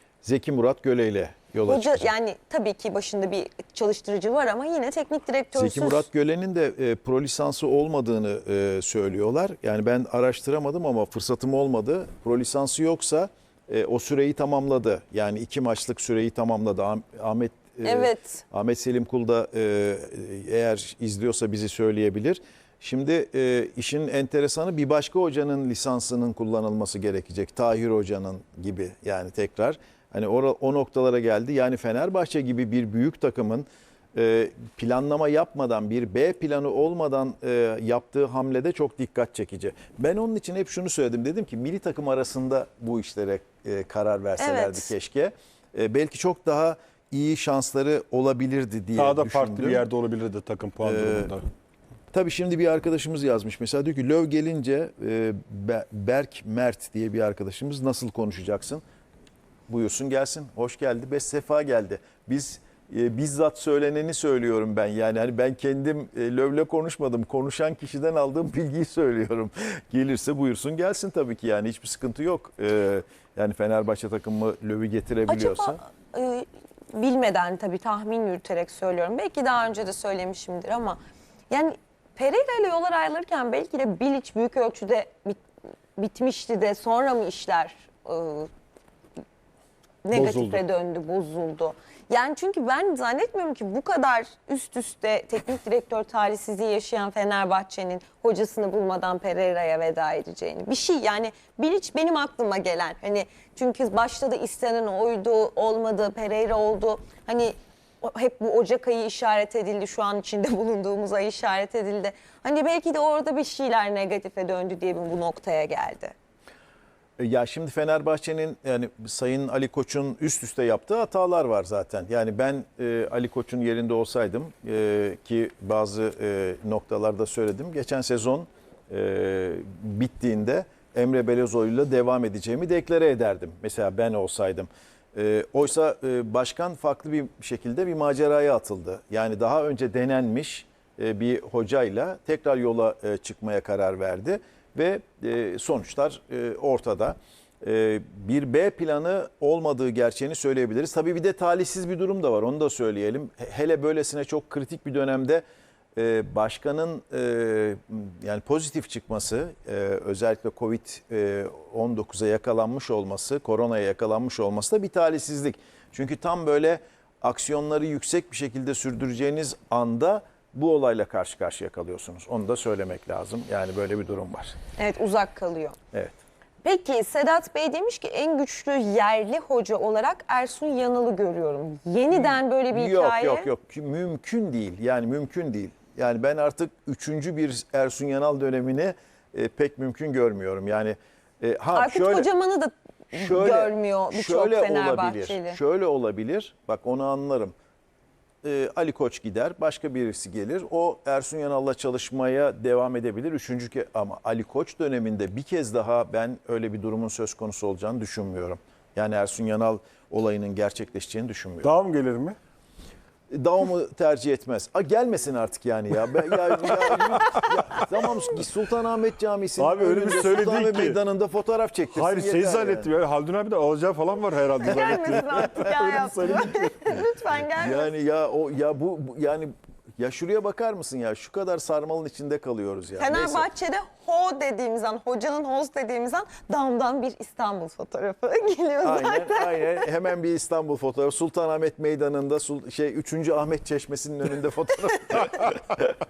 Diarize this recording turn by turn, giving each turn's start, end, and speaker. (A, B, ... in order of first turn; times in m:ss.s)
0:00.2-0:02.1 A
0:01.7-0:06.1 B
0:05.5-0:49.8 A
0:17.8-0:18.4 B
0:44.4-0:44.9 B
0:49.0-0:51.4 C
0:50.8-0:51.4 A
0:52.1-0:58.8 A
0:59.7-1:15.8 A
1:15.3-1:25.4 B
1:26.0-1:28.5 B
1:30.0-1:56.1 B
1:30.1-1:30.6 C
1:57.2-2:35.4 A
2:36.0-2:54.6 A
2:54.8-2:55.8 B
2:55.9-2:56.2 A
2:56.6-3:03.5 B
3:02.1-3:12.3 A
3:11.7-3:15.6 B
3:13.1-3:17.5 A
3:18.4-3:31.7 A
3:31.6-3:32.4 C
3:33.3-3:42.9 A
3:36.3-3:37.8 C
3:39.6-3:41.0 C
3:41.9-3:47.0 C
3:44.6-3:47.9 B
3:47.6-3:53.5 A
3:53.0-3:59.9 B
3:58.8-4:06.0 A